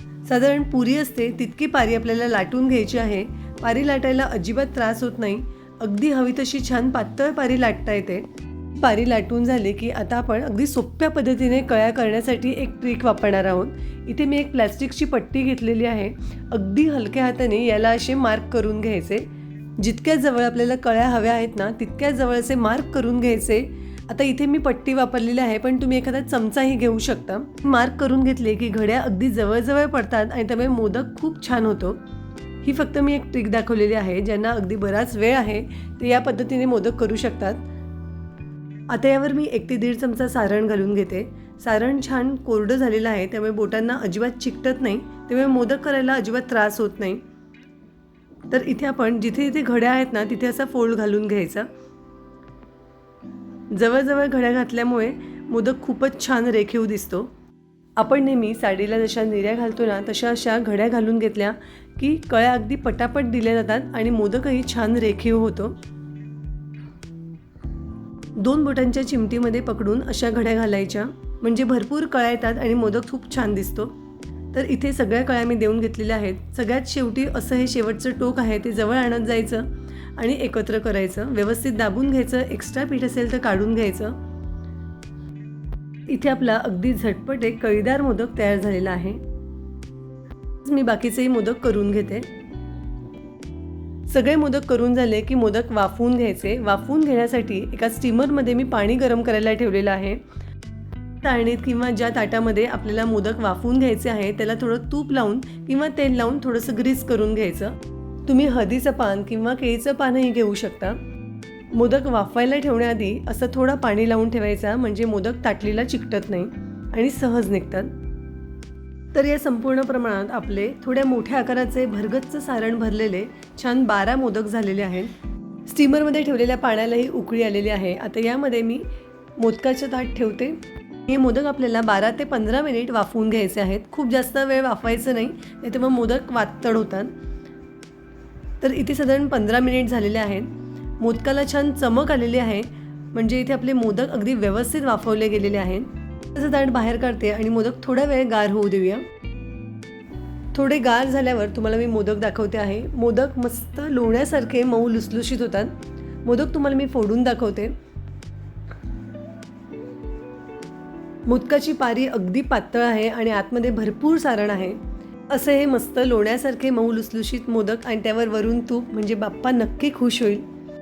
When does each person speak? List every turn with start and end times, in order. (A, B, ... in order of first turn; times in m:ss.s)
0:00.2-0:32.0 A
0:32.6-0:37.7 A
0:38.9-0:47.2 A
0:48.5-0:51.7 A
0:53.7-0:57.3 A
0:58.0-1:05.8 A
1:08.4-1:14.0 A
1:14.5-1:24.2 A
1:26.1-1:29.2 A
1:30.6-1:32.3 A
1:34.1-1:40.2 A
1:41.2-1:51.0 A
1:51.7-1:57.9 A
1:59.1-2:05.1 A
2:05.7-2:17.1 A
2:18.6-2:29.0 A
2:30.5-2:37.7 A
2:41.3-2:44.8 A
2:45.3-2:50.5 A